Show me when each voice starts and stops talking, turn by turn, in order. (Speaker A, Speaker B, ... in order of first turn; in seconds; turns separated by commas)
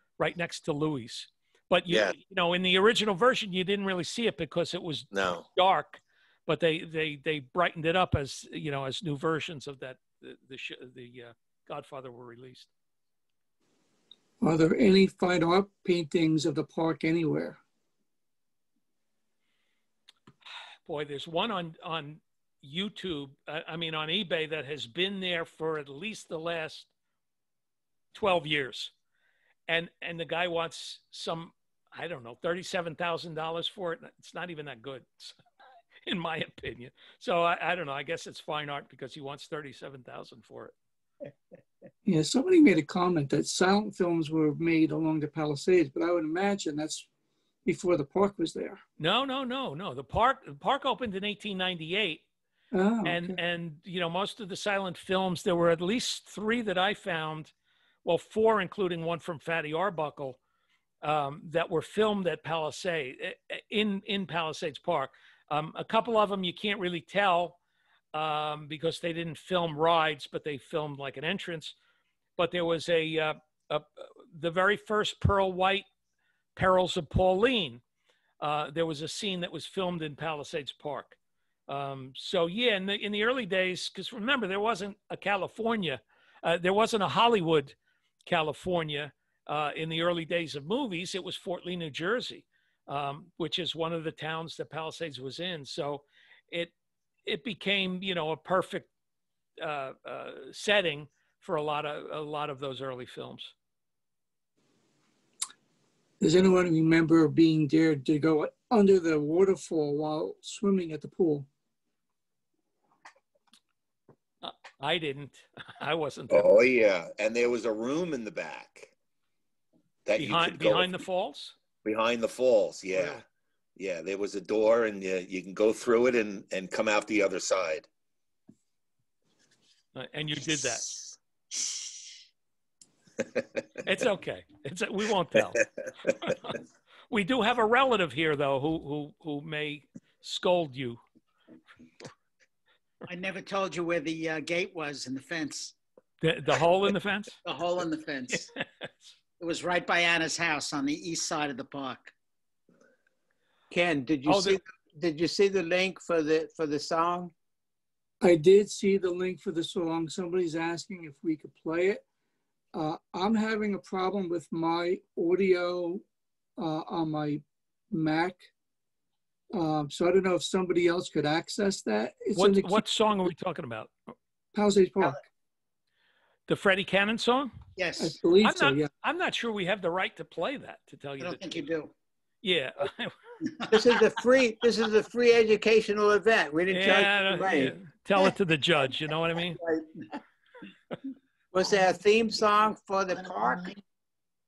Speaker A: 0.2-12.7, Speaker B: 1.9-2.1, Speaker B: 5.1-5.5, Speaker C: 14.4-17.6, Speaker A: 20.9-26.9, Speaker A: 28.1-28.9, Speaker A: 29.7-35.4, Speaker A: 36.0-40.7, Speaker C: 42.0-47.1, Speaker C: 47.6-48.8, Speaker A: 49.0-52.2, Speaker C: 52.7-53.4, Speaker A: 53.0-57.5, Speaker A: 58.0-60.4, Speaker A: 61.0-67.6, Speaker A: 68.1-71.7, Speaker A: 72.4-75.9, Speaker A: 76.5-77.8, Speaker A: 78.4-81.2, Speaker A: 81.7-87.7, Speaker A: 88.2-96.7, Speaker A: 97.2-98.9, Speaker A: 99.6-103.5, Speaker C: 106.2-111.5, Speaker A: 114.4-116.5, Speaker B: 116.3-118.9, Speaker B: 120.0-121.0, Speaker A: 120.2-121.5, Speaker B: 121.8-123.2, Speaker A: 122.9-123.2, Speaker B: 123.8-127.9, Speaker A: 129.9-130.9, Speaker A: 133.8-136.6, Speaker A: 137.1-141.0, Speaker D: 143.1-145.7, Speaker A: 146.2-147.3, Speaker D: 147.4-148.5, Speaker A: 148.3-148.6, Speaker D: 149.4-152.1, Speaker E: 153.7-157.3, Speaker A: 154.2-154.6, Speaker C: 158.2-162.0, Speaker C: 162.7-166.0, Speaker C: 166.6-168.5, Speaker C: 169.5-172.8, Speaker A: 172.3-173.9, Speaker C: 174.5-175.2, Speaker A: 176.5-177.6, Speaker D: 177.8-178.2, Speaker C: 178.0-178.9, Speaker A: 178.4-181.6, Speaker D: 181.2-181.9, Speaker A: 182.4-183.2, Speaker D: 183.5-183.8, Speaker E: 183.7-187.8, Speaker A: 186.7-189.6, Speaker E: 191.5-193.8